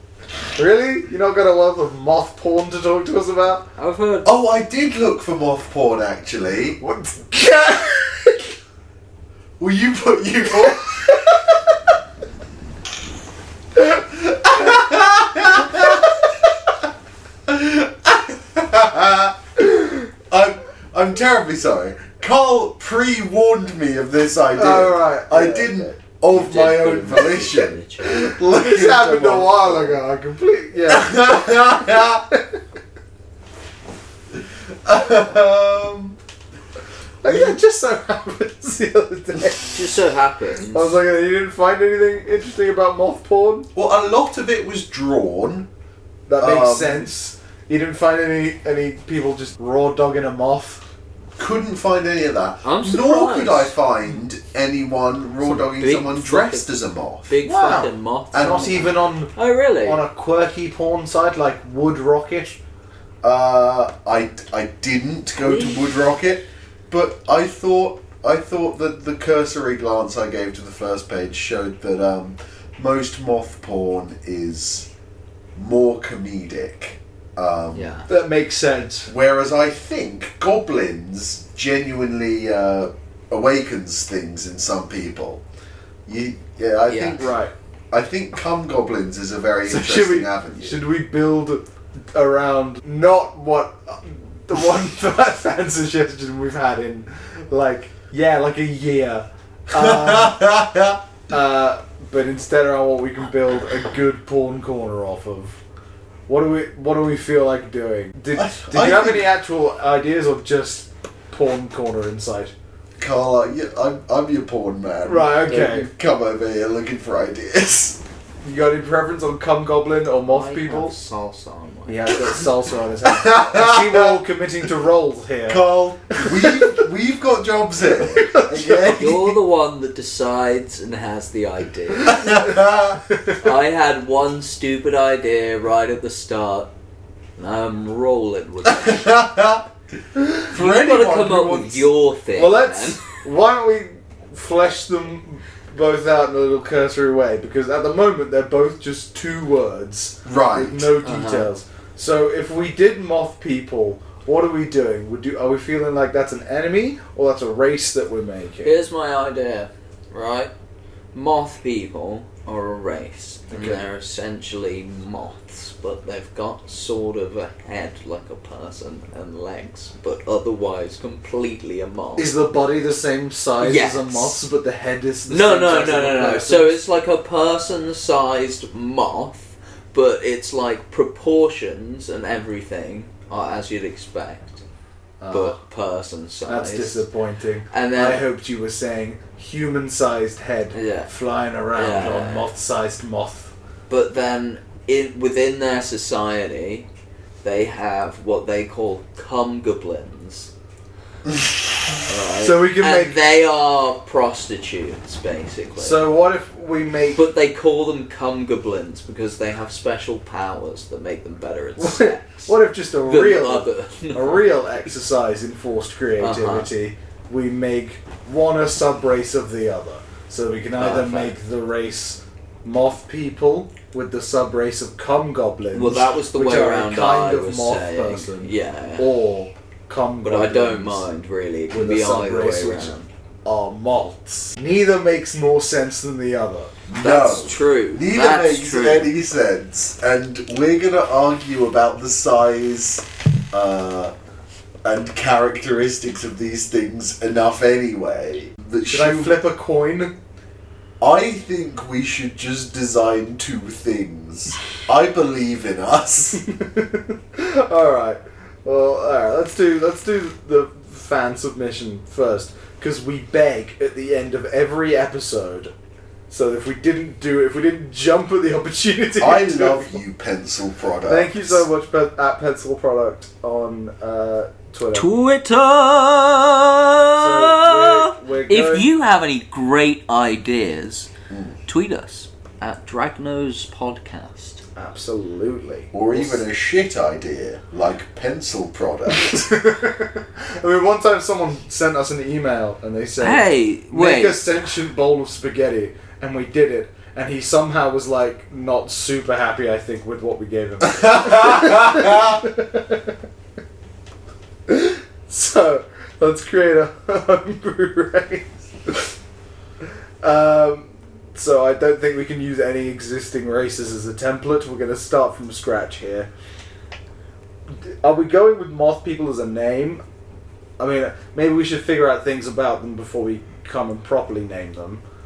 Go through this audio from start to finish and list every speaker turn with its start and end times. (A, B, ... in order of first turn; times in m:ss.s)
0:00.6-0:03.7 A
0:03.8-0:04.3 B
0:04.2-0:06.8 C
0:06.8-0:08.5 A
0:09.6-0:11.2 C
0:10.7-0:11.5 A
0:13.8-0:16.3 C
0:17.5-0:30.0 C
0:24.6-0:25.9 A
0:26.3-0:28.3 B
0:28.2-0:32.6 A
0:30.9-0:32.2 C
0:34.4-0:36.2 C
0:37.2-0:39.8 A
0:37.2-0:37.6 C
0:39.7-0:41.0 B
0:40.7-0:43.7 A
0:43.7-0:45.7 C
0:46.3-0:50.8 A
0:46.4-0:47.1 C
0:51.4-0:57.3 C
0:52.6-0:53.8 B
0:55.4-0:56.7 B
0:57.3-1:00.0 B
0:57.4-0:59.3 A
0:58.3-0:58.9 C
0:59.8-1:02.6 A
1:03.2-1:14.9 C
1:05.4-1:05.8 B
1:15.5-1:17.9 C
1:17.7-1:18.1 B
1:18.1-1:19.1 A
1:19.1-1:25.4 C
1:26.0-1:27.4 C
1:26.9-1:27.3 B
1:27.2-1:27.5 A
1:27.9-1:30.8 C
1:29.7-1:40.6 A
1:39.7-1:41.0 C
1:41.3-1:45.6 A
1:46.3-1:52.5 A
1:48.3-1:49.3 C
1:53.0-1:58.0 C
1:55.0-1:55.9 A
1:58.4-2:00.9 A
2:00.2-2:02.3 B
2:01.9-2:06.8 A
2:03.0-2:04.2 C
2:05.5-2:09.3 C
2:08.0-2:09.2 A
2:08.8-2:12.4 B
2:12.0-2:13.0 C
2:13.3-2:16.7 B
2:17.4-2:19.0 B
2:18.6-2:19.7 C
2:20.2-2:20.4 A
2:20.5-2:21.9 C
2:20.5-2:23.0 B
2:22.4-2:38.8 A
2:30.2-2:30.9 C
2:31.0-2:31.5 B
2:38.6-2:40.5 B
2:41.1-2:52.3 B
2:43.5-2:43.8 A
2:52.2-2:56.8 A
2:53.6-2:54.4 B
2:55.3-3:04.6 B
3:05.2-3:05.6 A
3:05.3-3:07.0 B
3:06.5-3:13.5 A
3:07.7-3:08.2 B
3:10.7-3:11.1 B
3:11.7-3:12.5 B
3:13.9-3:16.9 B
3:17.4-3:20.5 B
3:22.1-3:26.1 B
3:22.4-3:23.3 A
3:25.8-3:27.2 A
3:27.1-3:32.5 B
3:31.8-3:51.1 A
3:33.0-3:34.6 B
3:36.2-3:36.7 B
3:40.8-3:41.3 B
3:45.7-3:49.1 B
3:50.2-3:53.0 B
3:51.7-3:56.7 A
3:56.9-4:04.1 C
3:57.0-3:59.1 B
4:04.8-4:09.4 C
4:08.8-4:10.1 A
4:11.0-4:16.4 C
4:16.4-4:25.7 A
4:26.3-4:30.0 A
4:29.2-4:31.6 C
4:31.1-4:35.1 A
4:34.9-4:41.1 B
4:37.2-4:38.9 A
4:41.3-4:41.6 C
4:41.7-4:44.6 B
4:44.8-4:46.4 A
4:45.9-4:49.6 C
4:49.1-5:03.2 A
4:53.2-4:54.4 B
5:00.9-5:02.4 C
5:04.7-5:09.1 A
5:10.2-5:16.3 A
5:17.7-5:20.0 A
5:20.8-5:25.0 A